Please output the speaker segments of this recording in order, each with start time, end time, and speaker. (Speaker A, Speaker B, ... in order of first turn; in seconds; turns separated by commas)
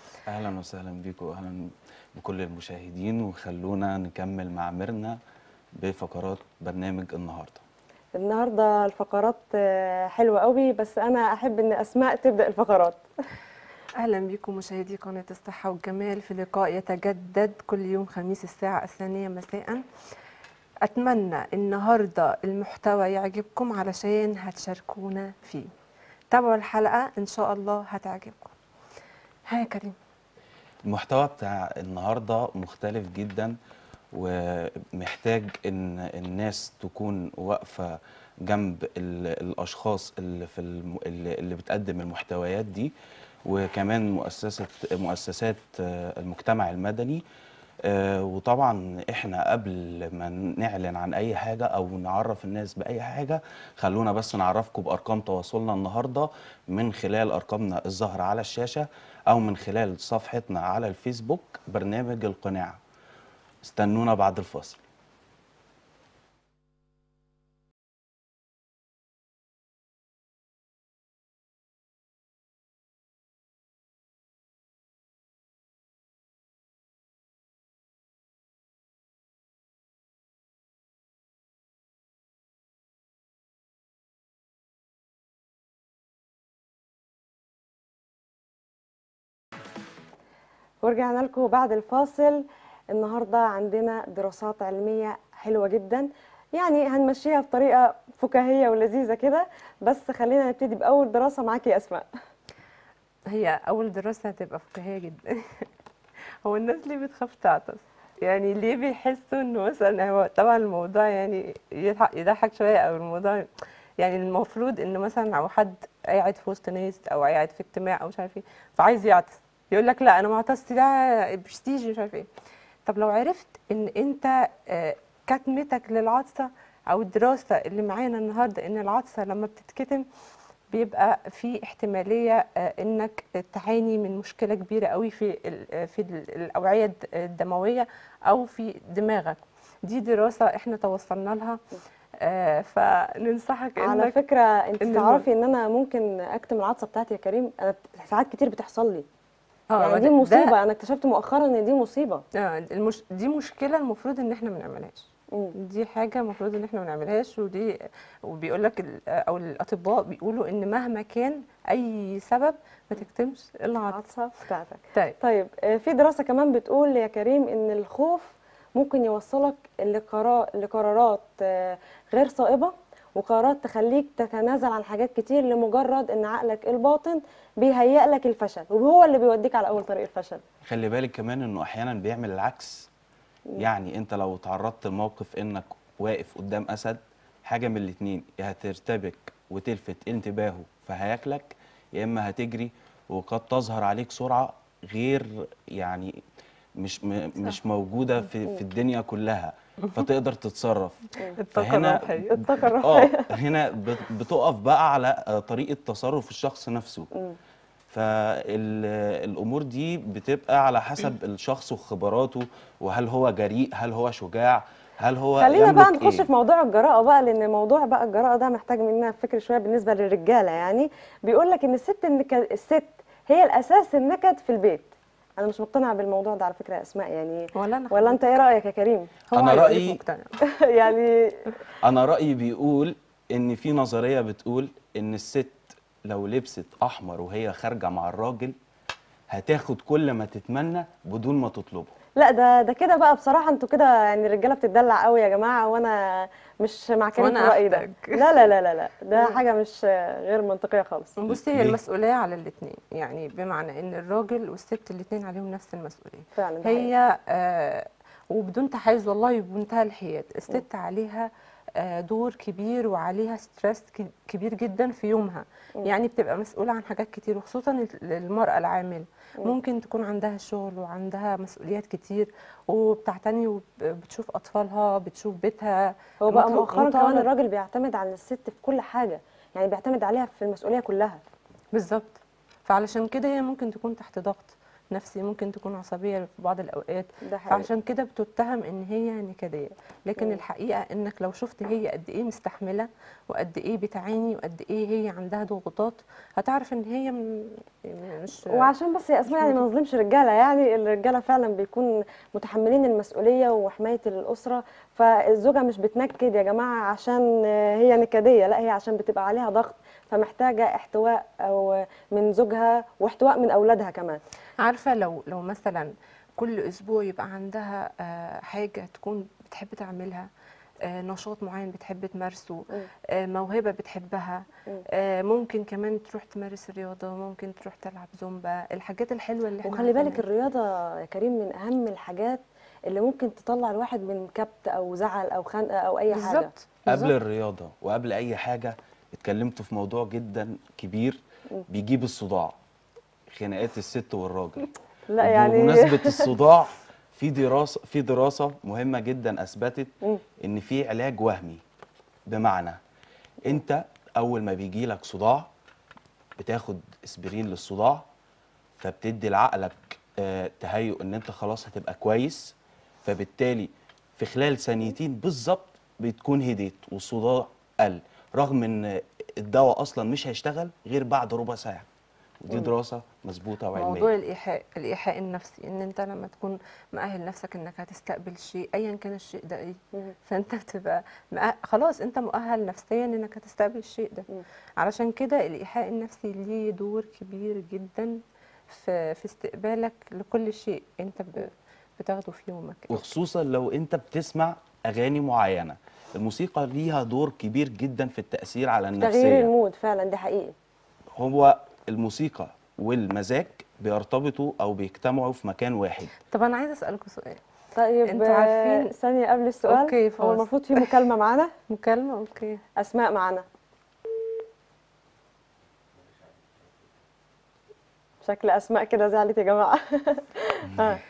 Speaker A: 0.3-5.2, Speaker A: 5.8-7.6, Speaker B: 8.2-13.0, Speaker C: 14.0-19.8, Speaker C: 20.8-25.7, Speaker C: 26.3-28.5, Speaker C: 29.5-29.9, Speaker A: 30.9-33.5, Speaker A: 34.1-42.9, Speaker A: 43.5-47.2, Speaker A: 47.8-62.8, Speaker A: 63.6-64.8, Speaker B: 90.8-102.1, Speaker C: 103.3-105.7, Speaker C: 106.4-113.5, Speaker C: 114.0-122.3, Speaker C: 122.8-130.1, Speaker C: 130.7-141.6, Speaker C: 142.2-144.2, Speaker B: 143.8-149.1, Speaker C: 144.8-145.2, Speaker C: 149.7-150.5, Speaker B: 149.8-152.2, Speaker C: 152.3-164.0, Speaker B: 163.9-180.4, Speaker A: 180.6-182.9, Speaker A: 183.6-196.2, Speaker A: 196.8-201.0, Speaker C: 201.4-202.3, Speaker A: 201.5-207.1, Speaker B: 202.3-203.3, Speaker A: 207.9-216.3, Speaker B: 215.4-229.1, Speaker C: 227.5-228.2, Speaker C: 229.3-230.3, Speaker A: 229.3-230.0, Speaker B: 230.6-231.4, Speaker A: 231.8-238.6, Speaker A: 239.3-241.9, Speaker B: 242.2-251.1, Speaker C: 247.2-248.4, Speaker C: 251.2-277.3, Speaker A: 251.3-251.8, Speaker B: 256.3-256.9, Speaker B: 276.2-281.2, Speaker C: 281.7-298.7, Speaker B: 287.2-287.7, Speaker B: 290.2-290.4, Speaker B: 298.5-314.2, Speaker C: 299.3-299.6, Speaker C: 314.6-320.3, Speaker C: 320.8-330.2, Speaker B: 329.6-336.5, Speaker C: 336.1-337.1, Speaker A: 336.9-342.6, Speaker A: 343.3-344.7, Speaker B: 345.1-346.3, Speaker A: 345.2-351.6, Speaker A: 352.3-352.8, Speaker A: 353.4-355.5, Speaker A: 356.4-358.1, Speaker A: 358.8-371.9, Speaker A: 372.4-374.1, Speaker C: 373.8-384.3, Speaker C: 384.8-393.0, Speaker A: 392.9-399.5, Speaker B: 399.0-400.5, Speaker A: 401.1-406.1, Speaker C: 406.3-407.4, Speaker B: 407.7-411.5, Speaker C: 408.1-408.9, Speaker C: 409.7-410.9, Speaker C: 411.7-412.6, Speaker B: 412.8-413.4, Speaker B: 418.2-421.0, Speaker A: 420.7-421.0